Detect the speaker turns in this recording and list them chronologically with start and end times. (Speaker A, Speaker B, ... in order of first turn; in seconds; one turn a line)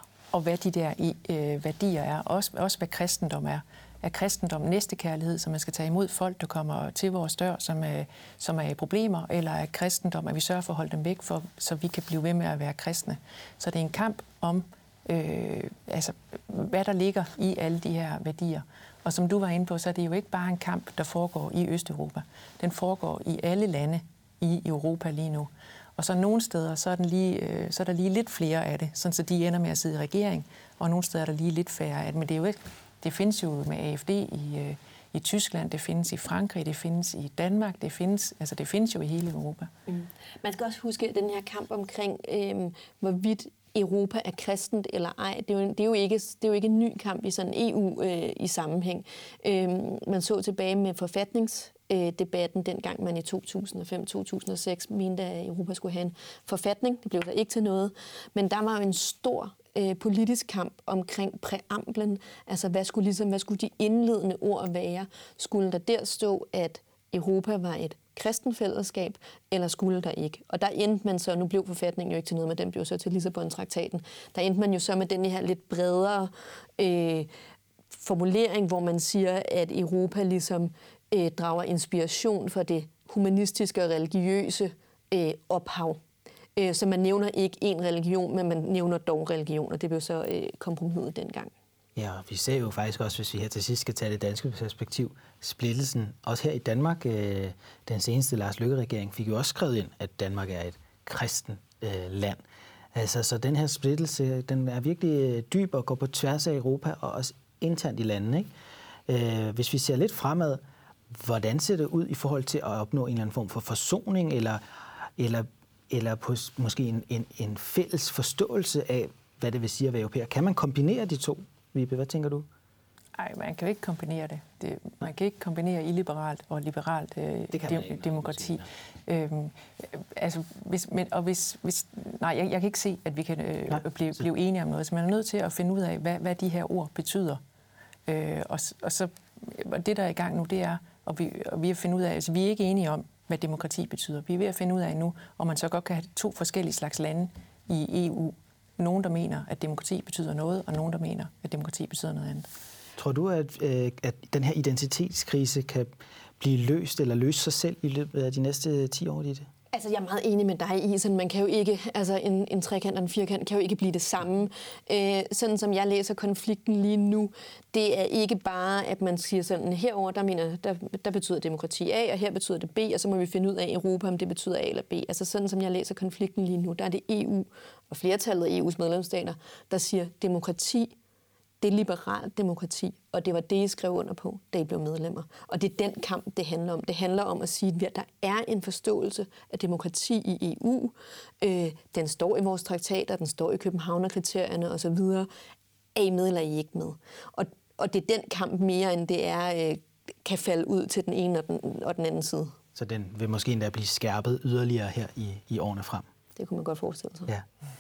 Speaker A: 0.3-39.7
Speaker B: 39.9-77.3
Speaker B: 77.9-86.0
Speaker B: 86.6-91.5
Speaker C: 92.0-102.4
Speaker C: 102.9-108.5
Speaker C: 109.1-114.6
Speaker C: 115.2-122.5
Speaker A: 123.2-137.4
Speaker C: 127.5-128.7
Speaker A: 138.1-152.5
Speaker C: 153.0-159.5
Speaker B: 159.7-180.9
Speaker B: 181.6-195.3
Speaker B: 196.0-202.6
Speaker C: 202.8-206.1
Speaker B: 206.4-207.3